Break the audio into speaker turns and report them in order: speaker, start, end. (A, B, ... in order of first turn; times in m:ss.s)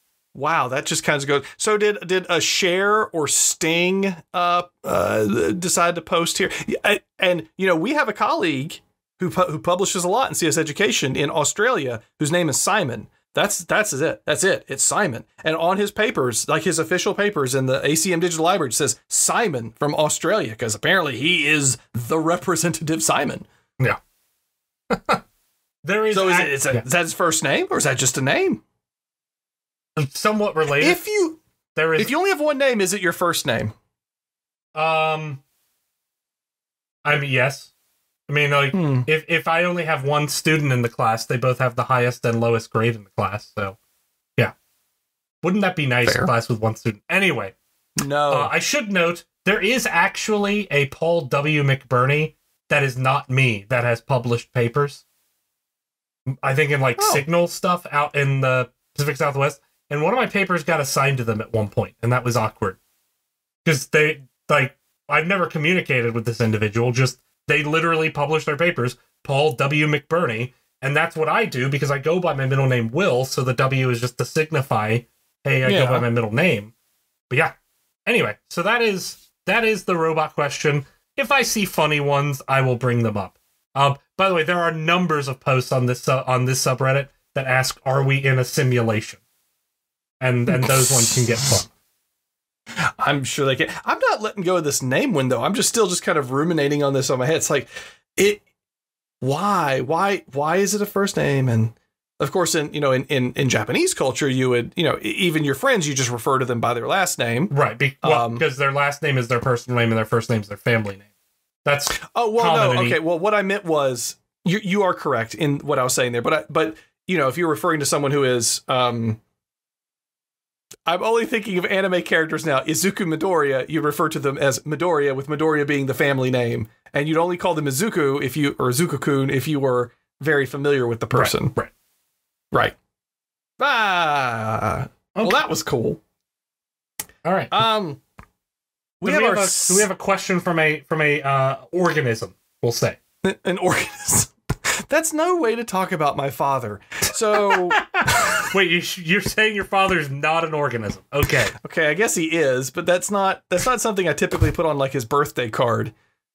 0:00.4-0:23.5 A
0:24.9-0:25.2 B
0:25.8-0:26.8 B
0:26.1-0:28.6 A
0:30.0-0:31.0 B
0:30.8-0:31.4 A
0:31.8-0:32.1 B
0:32.0-0:33.7 A
0:34.8-0:35.4 B
0:37.0-0:37.7 B
0:38.3-0:43.8 B
0:38.7-0:39.1 A
0:45.4-0:47.5 B
0:46.0-0:46.3 A
0:48.0-0:48.5 A
0:48.3-0:55.0 B
0:56.4-1:02.8 B
0:57.0-0:57.2 A
1:03.6-1:16.7 B
1:15.6-1:16.0 A
1:18.0-1:29.2 B
1:30.2-1:31.7 B
1:30.5-1:31.1 A
1:32.8-1:38.4 A
1:39.2-1:47.5 A
1:47.5-1:51.0 B
1:48.0-1:48.4 A
1:51.6-1:53.0 B
1:52.0-1:59.2 A
2:00.9-2:11.6 A
2:11.1-2:11.7 B
2:13.6-2:16.0 A
2:17.2-2:17.6 B
2:17.5-2:18.0 A
2:19.0-2:19.9 A
2:19.0-2:23.0 B
2:23.2-2:28.4 A
2:27.4-2:31.5 B
2:31.5-2:35.9 A